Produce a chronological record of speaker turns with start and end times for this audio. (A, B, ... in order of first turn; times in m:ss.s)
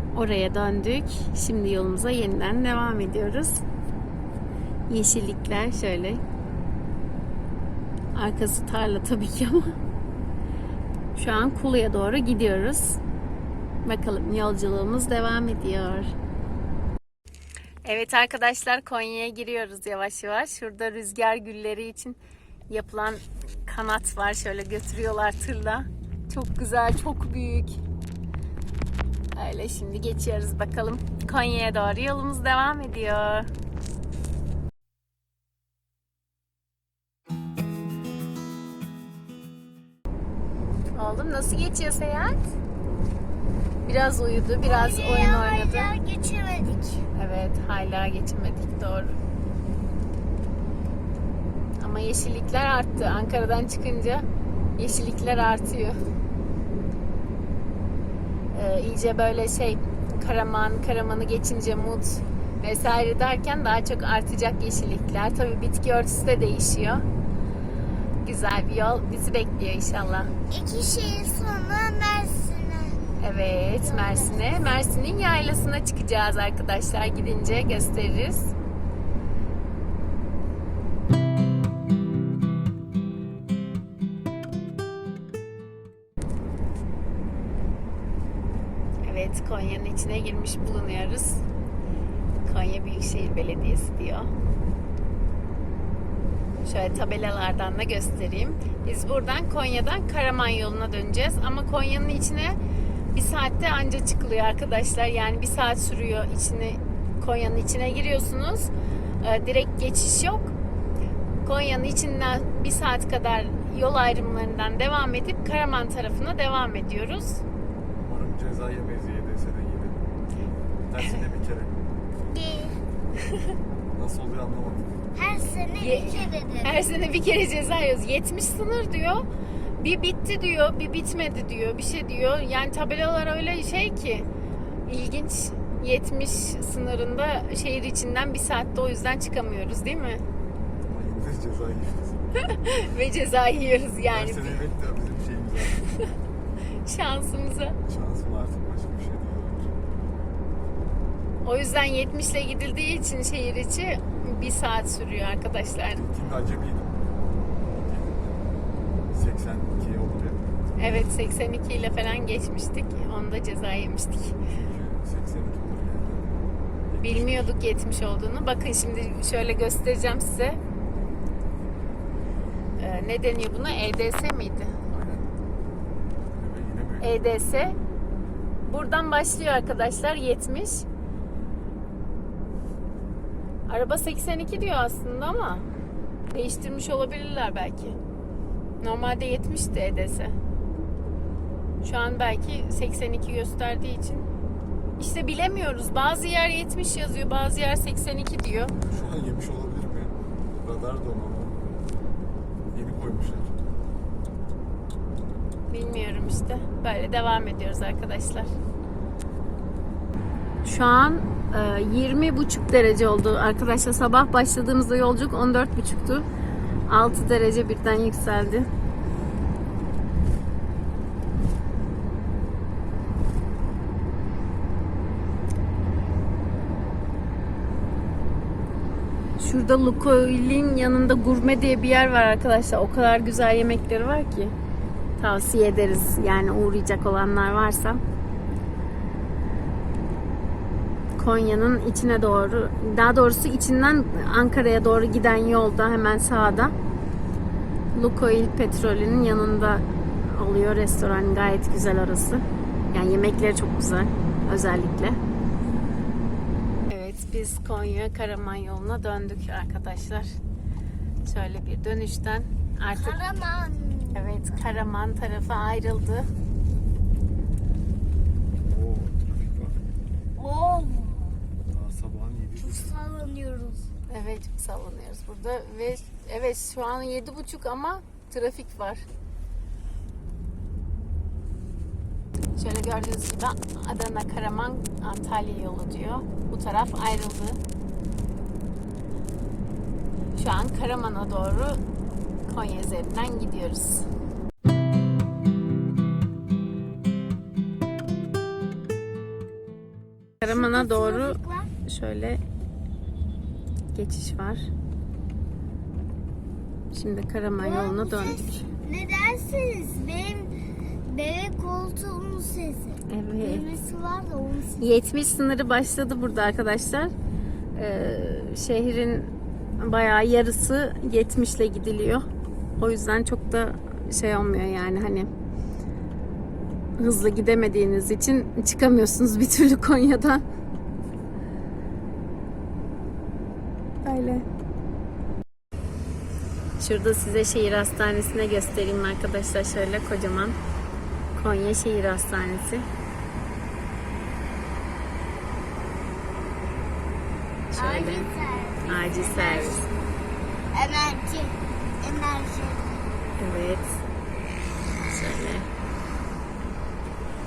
0:00.1-0:03.6 A
0:04.9-0:06.2 A
0:08.1-0:09.8 A
0:11.1-0:13.0 A
0:13.8-0:16.1 A
0:17.8-0:22.2 A
0:22.7-0:27.8 A
0:29.4-0:33.5 A
0:40.9-0:42.5 A
0:43.8-0:45.9 A
0:44.6-0:47.0 B
0:47.1-0:49.2 A
0:51.8-0:54.2 A
0:54.8-0:56.0 A
0:58.5-1:07.0 A
1:08.2-1:10.3 A
1:10.5-1:13.0 B
1:13.2-1:18.5 A
1:13.8-1:14.6 B
1:29.0-1:31.4 A
1:32.4-1:34.3 A
1:36.6-1:42.6 A
1:43.1-1:48.7 A
1:49.2-1:50.5 A
1:51.4-1:57.4 A
1:58.0-2:00.0 C
2:00.9-2:01.8 C
2:02.3-2:02.8 B
2:03.9-2:05.0 C
2:05.1-2:06.7 B
2:05.8-2:09.2 A
2:09.8-2:14.3 A
2:14.9-2:20.2 A
2:20.8-2:22.4 C
2:22.5-2:24.6 A
2:24.1-2:25.9 C
2:26.8-2:27.8 A
2:27.8-2:29.7 C
2:31.4-2:36.0 A
2:35.9-2:37.0 C
2:37.8-2:38.4 C
2:39.1-2:40.5 C
2:40.8-2:44.4 A
2:44.5-2:47.5 C
2:47.0-2:50.6 A
2:52.8-2:54.7 A
2:54.9-2:55.3 C
2:56.3-2:57.1 C
2:57.0-2:57.8 A
2:58.6-3:00.8 A
3:03.7-3:05.7 A
3:06.3-3:08.0 A
3:08.8-3:10.4 A
3:11.8-3:14.3 A
3:15.0-3:18.8 A
3:18.8-3:21.8 C
3:22.7-3:23.6 C
3:25.7-3:28.5 A
3:30.6-3:36.2 A
3:36.9-3:38.7 A
3:49.4-3:54.5 A
3:55.2-3:58.0 A
4:01.2-4:06.7 A
4:07.9-4:15.2 A
4:16.9-4:20.3 A
4:21.2-4:23.2 A
4:22.9-4:24.4 B
4:24.2-4:26.3 A
4:28.6-4:29.8 C
4:30.4-4:31.4 B
4:31.7-4:32.9 C
4:32.6-4:33.9 B
4:34.1-4:39.1 A
4:42.6-4:47.6 A
4:50.3-4:51.8 A
4:52.5-4:54.1 A
5:00.4-5:02.4 A
5:00.4-5:01.7 B
5:03.9-5:04.7 A
5:06.9-5:08.7 A
5:07.6-5:10.6 B
5:11.1-5:14.8 B
5:13.1-5:13.7 A
5:14.8-5:17.1 A
5:17.7-5:22.2 A
5:22.8-5:25.3 A
5:27.0-5:30.4 A
5:34.0-5:34.4 A
5:36.8-5:40.6 A
5:41.3-5:42.8 A
5:47.7-5:48.3 A
5:47.8-5:49.8 B
5:48.8-5:49.9 A
5:50.7-5:53.1 B
5:53.4-5:54.0 A
5:55.1-5:55.7 A